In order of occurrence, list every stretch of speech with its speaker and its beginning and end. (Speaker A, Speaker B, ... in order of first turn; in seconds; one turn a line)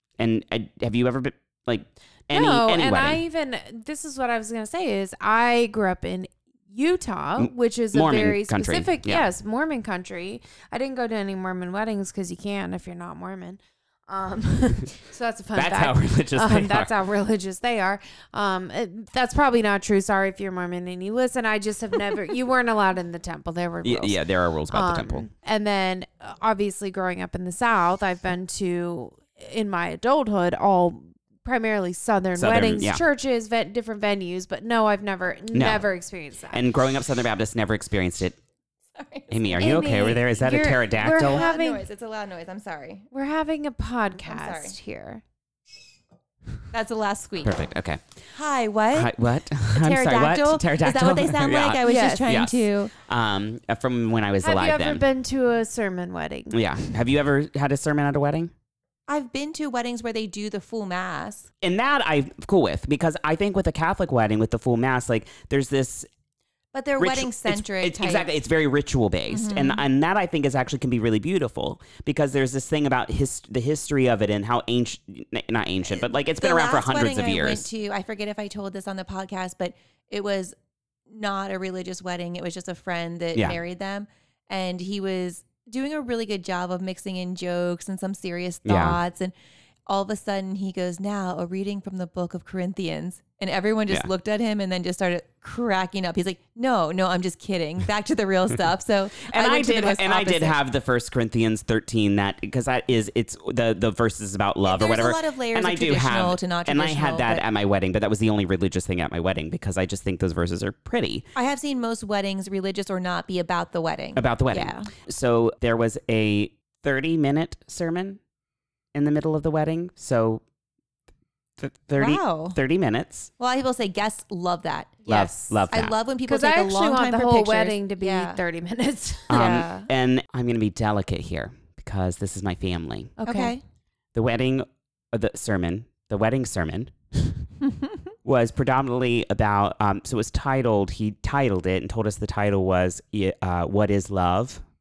Speaker A: 0.2-3.2
Speaker B: 2.3-24.2
Speaker A: 7.4-9.2
Speaker A: 15.5-16.9
Speaker A: 23.8-25.3
Speaker B: 24.7-36.6
Speaker A: 32.4-33.0
Speaker A: 35.5-35.9
Speaker A: 36.5-38.4
Speaker C: 38.9-39.8
Speaker A: 39.3-41.4
Speaker B: 39.5-41.9
Speaker C: 41.2-43.0
Speaker B: 43.1-45.2
Speaker C: 44.2-44.8
Speaker C: 46.7-47.6
Speaker A: 47.4-48.0
Speaker C: 48.3-49.1
Speaker A: 48.9-55.0
Speaker C: 49.7-52.9
Speaker B: 51.8-52.3
Speaker B: 54.4-56.6
Speaker A: 56.5-58.5
Speaker C: 59.1-61.5
Speaker A: 61.6-66.1
Speaker C: 66.7-68.3
Speaker A: 67.0-77.7
Speaker C: 69.3-69.8
Speaker C: 75.9-80.5
Speaker C: 81.1-89.3
Speaker A: 88.6-89.0
Speaker C: 89.9-100.6
Speaker A: 99.2-111.2
Speaker C: 104.6-107.4
Speaker C: 111.3-114.9
Speaker A: 114.2-118.2
Speaker A: 118.9-120.4
Speaker A: 121.6-123.3
Speaker C: 122.0-122.6
Speaker C: 123.4-125.1
Speaker B: 125.0-125.7
Speaker A: 125.1-125.9
Speaker C: 125.7-128.4
Speaker B: 126.3-129.4
Speaker A: 129.3-133.1
Speaker C: 129.3-129.9
Speaker B: 133.2-133.6
Speaker C: 133.2-133.6
Speaker A: 134.1-137.4
Speaker A: 138.2-144.6